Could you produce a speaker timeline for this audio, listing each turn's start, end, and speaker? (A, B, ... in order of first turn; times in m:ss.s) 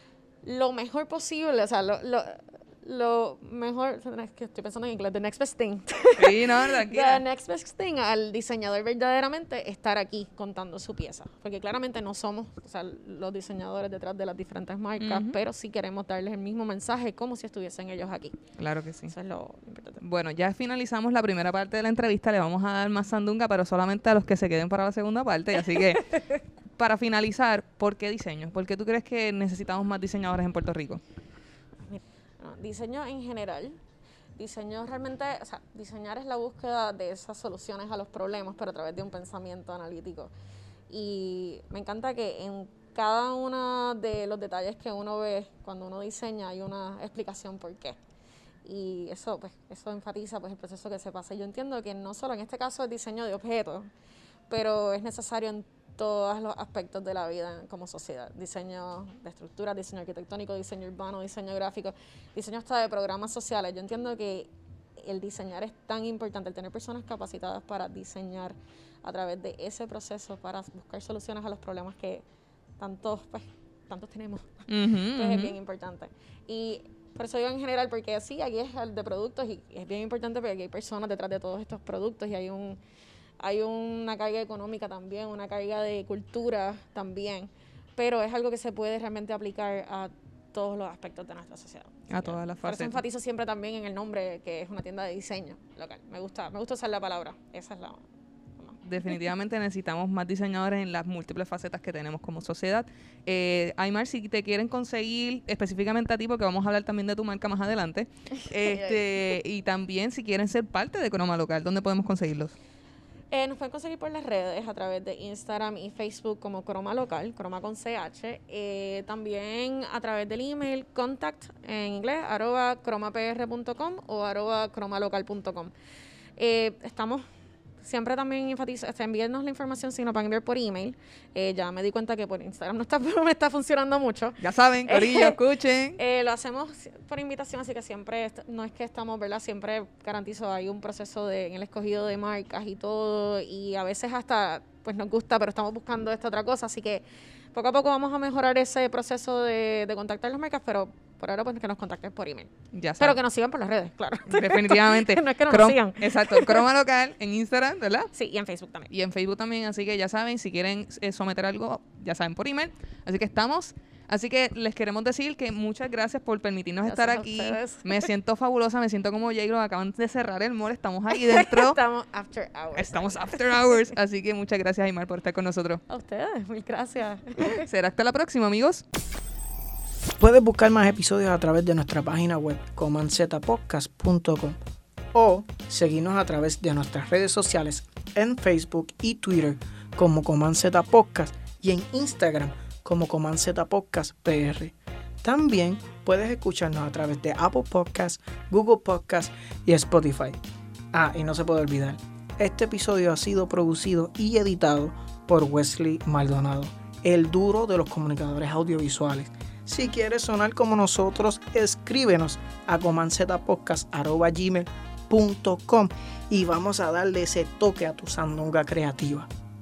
0:00.4-0:18.4 A
0:06.2-0:07.2 B
0:15.0-0:15.4 B
0:18.6-0:19.1 B
0:19.1-0:20.0 A
0:20.0-0:26.2 B
0:26.8-0:31.0 B
0:31.8-0:33.8 A
0:34.4-0:40.3 A
0:40.9-0:48.0 A
0:48.6-0:53.9 A
0:54.5-1:12.2 A
1:12.8-1:22.8 A
1:14.7-1:15.6 B
1:23.4-1:38.1 A
1:32.1-1:33.0 B
1:38.8-1:52.5 B
1:48.4-1:49.0 A
1:53.3-2:05.7 A
2:06.4-2:07.2 A
2:07.8-2:15.4 A
2:14.4-2:16.0 B
2:16.0-2:36.6 A
2:32.7-2:33.2 B
2:34.3-2:38.1 B
2:38.1-2:38.9 A
2:38.9-2:51.8 B
2:46.8-2:48.1 A
2:51.1-2:53.9 A
2:52.8-2:55.8 B
2:55.9-2:57.7 A
2:57.5-2:58.8 B
3:00.2-3:04.6 C
3:05.1-3:20.4 C
3:20.9-3:39.3 C